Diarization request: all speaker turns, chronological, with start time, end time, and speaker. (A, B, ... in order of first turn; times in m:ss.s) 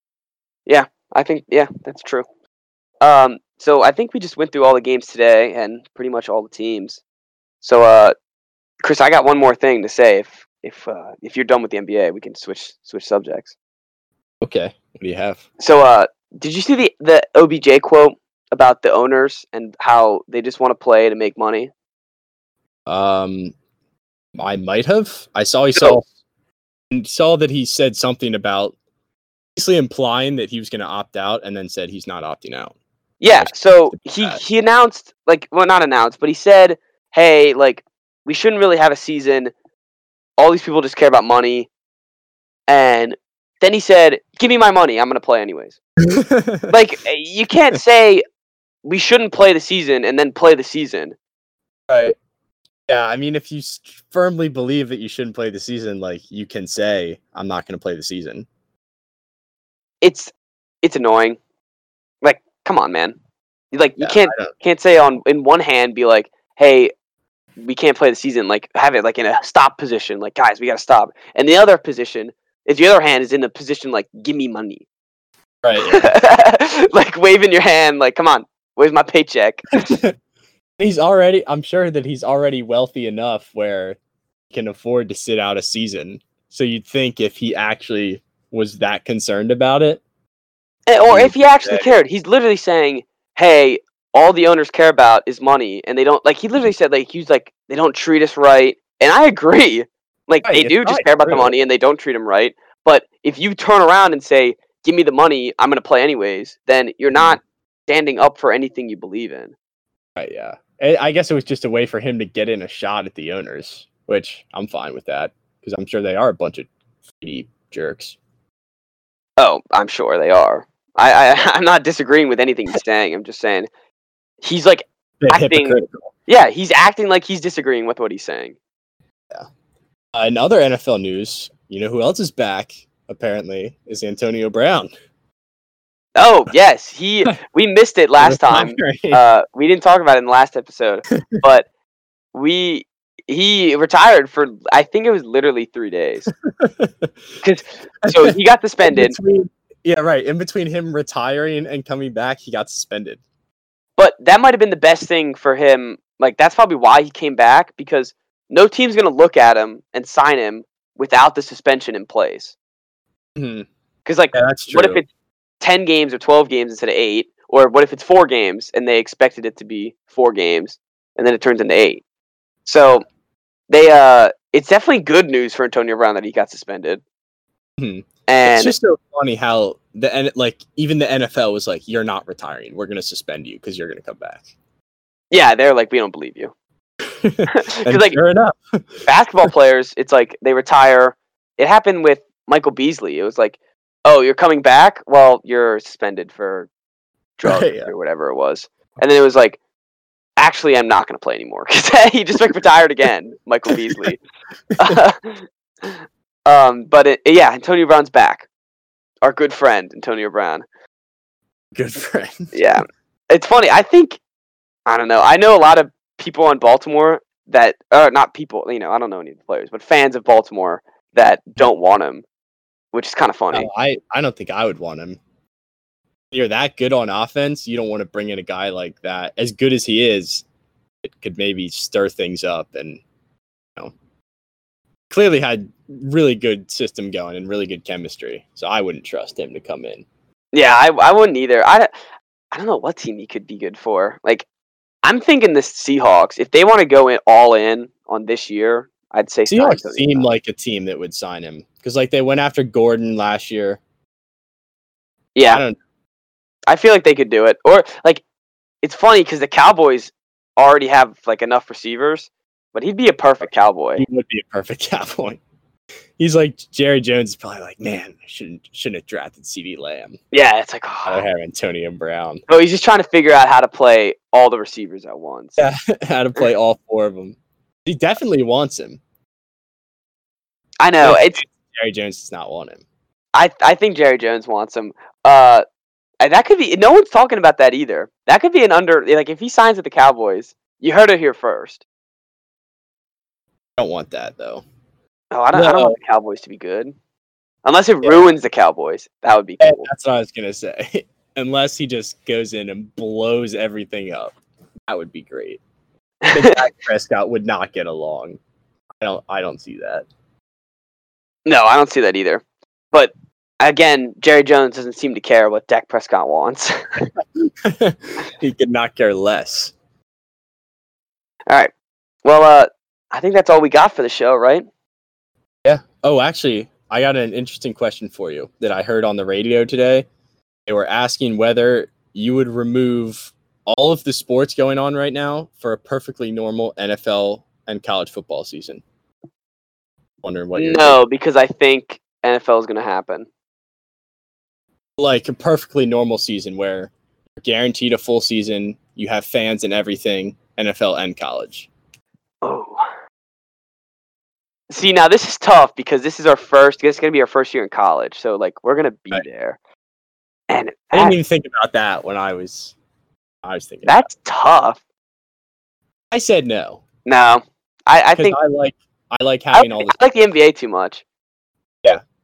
0:00.7-0:02.2 A
0:03.0-0:07.0 A
0:07.6-0:08.1 A
0:08.8-0:13.5 A
0:14.4-0:15.4 B
0:15.6-0:21.7 A
0:22.8-0:23.5 B
0:24.3-0:26.0 B
0:25.7-0:26.0 A
0:26.9-0:28.7 B
0:29.6-0:32.7 B
0:33.2-0:39.5 A
0:33.2-0:34.4 B
0:40.4-0:41.7 A
0:42.7-0:45.8 A
0:46.0-0:46.7 B
0:46.7-0:48.2 A
0:48.8-0:51.2 A
0:51.9-0:52.1 B
0:52.9-0:58.4 B
1:00.0-1:01.4 A
1:02.2-1:03.2 A
1:03.7-1:06.9 A
1:04.0-1:04.5 B
1:07.6-1:14.8 A
1:15.6-1:16.1 B
1:15.8-1:19.7 A
1:19.8-1:20.1 B
1:20.8-1:24.0 B
1:24.5-1:30.0 B
1:30.9-1:49.5 A
1:31.1-1:31.9 B
1:40.4-1:41.5 B
1:50.2-1:56.7 B
1:57.2-1:58.2 B
1:59.4-2:03.7 A
2:04.4-2:08.5 A
2:05.2-2:06.1 B
2:10.1-2:14.9 B
2:16.2-2:21.7 A
2:18.2-2:19.2 B
2:21.1-2:21.4 B
2:22.3-2:26.3 A
2:26.3-2:27.1 B
2:27.4-2:29.2 A
2:28.0-2:33.2 B
2:34.0-2:42.5 A
2:43.4-2:43.7 B
2:44.0-2:45.1 A
2:44.3-2:45.0 B
2:45.6-2:52.0 A
2:52.6-2:53.0 A
2:53.7-2:57.0 A
2:57.8-3:04.5 B
2:58.3-2:58.7 A
3:05.3-3:06.5 A
3:07.1-3:09.0 B
3:07.5-3:08.2 A
3:09.0-3:16.7 A
3:17.4-3:19.6 A
3:17.4-3:17.9 B
3:20.4-3:24.2 A
3:23.7-3:24.0 B
3:24.7-3:25.0 B
3:24.8-3:28.4 A
3:29.2-3:30.6 A
3:31.7-3:32.6 B
3:32.5-3:34.2 A
3:34.9-3:42.2 A
3:42.9-3:43.7 A
3:43.5-3:45.2 B
3:46.3-3:50.4 B
3:51.0-3:53.0 B
3:55.1-4:00.0 B
4:00.5-4:01.9 A
4:02.5-4:04.4 A
4:05.0-4:10.3 A
4:09.5-4:13.8 B
4:15.4-4:15.6 A
4:15.5-4:15.8 B
4:16.7-4:18.2 A
4:18.8-4:24.0 A
4:24.0-4:25.4 B
4:26.2-4:30.2 B
4:30.3-4:31.3 A
4:31.0-4:32.4 B
4:32.5-4:35.6 A
4:35.6-4:39.0 B
4:40.8-4:41.4 A
4:41.0-4:42.8 B
4:43.3-4:45.6 A
4:46.2-4:51.8 A
4:53.8-4:54.6 B
4:55.3-4:56.9 A
4:55.5-4:56.0 B
4:57.6-4:59.9 A
4:58.0-4:58.3 B
4:59.6-5:04.3 B
5:04.9-5:05.6 B
5:06.2-5:06.6 A
5:06.3-5:08.4 B
5:09.0-5:10.1 B
5:11.4-5:17.1 A
5:17.2-5:19.7 B
5:22.2-5:24.7 A
5:25.6-5:30.0 B
5:30.7-5:38.8 B
5:40.2-5:41.0 B
5:40.5-5:43.3 A
5:45.0-5:51.7 B
5:52.4-5:52.8 A
5:54.7-5:59.6 A
6:00.5-6:01.2 A
6:00.9-6:02.7 B
6:03.4-6:04.1 B
6:03.8-6:04.8 A
6:06.1-6:06.8 B
6:07.0-6:08.4 A
6:08.2-6:09.9 B
6:09.5-6:11.0 A